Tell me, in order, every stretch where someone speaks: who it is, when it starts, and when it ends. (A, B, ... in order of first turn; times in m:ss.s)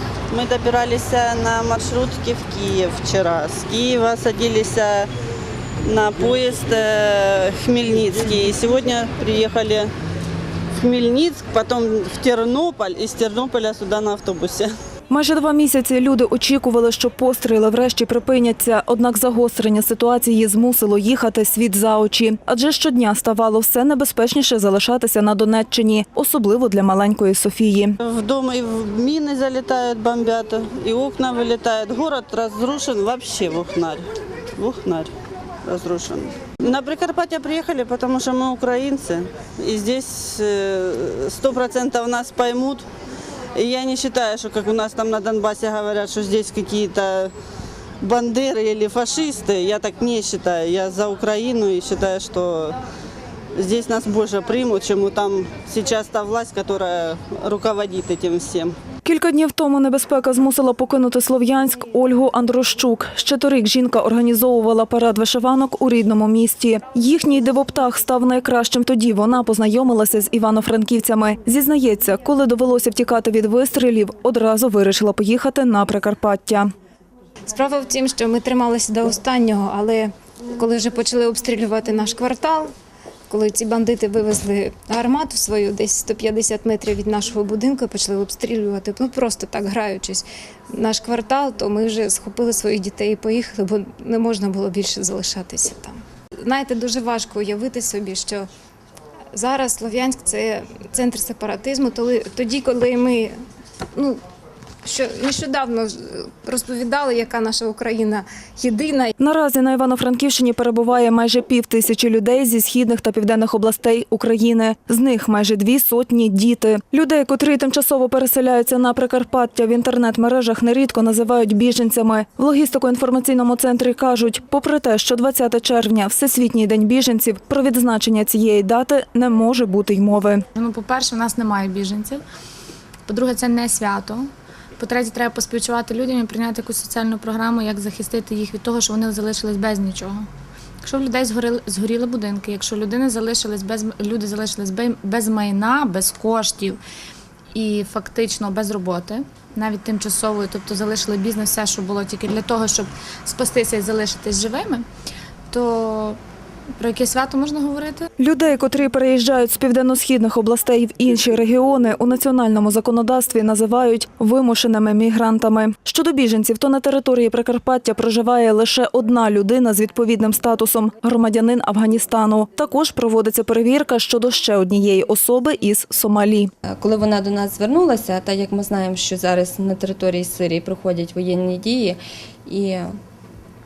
0:00.3-0:05.1 A
0:05.8-0:09.9 A
0:10.7-0:14.7 A
0:15.1-0:27.9 B
0:28.0-0:34.0 A
0:34.6-0:35.1 A
0:35.6-0:42.8 A
0:43.5-0:47.3 A
0:48.0-0:52.8 A
0:53.6-0:58.7 A
0:59.0-1:16.7 B
1:17.5-1:22.7 C
1:23.3-1:38.5 C
1:39.3-1:43.3 C
1:43.9-1:44.2 C
1:44.8-1:49.1 C
1:49.2-2:10.4 B
2:10.5-2:12.2 D
2:13.1-2:20.3 D
2:20.8-2:26.8 D
2:27.5-2:34.8 D
2:35.5-2:36.2 D
2:36.8-2:38.0 D
2:38.2-2:56.5 B
2:56.7-3:02.9 E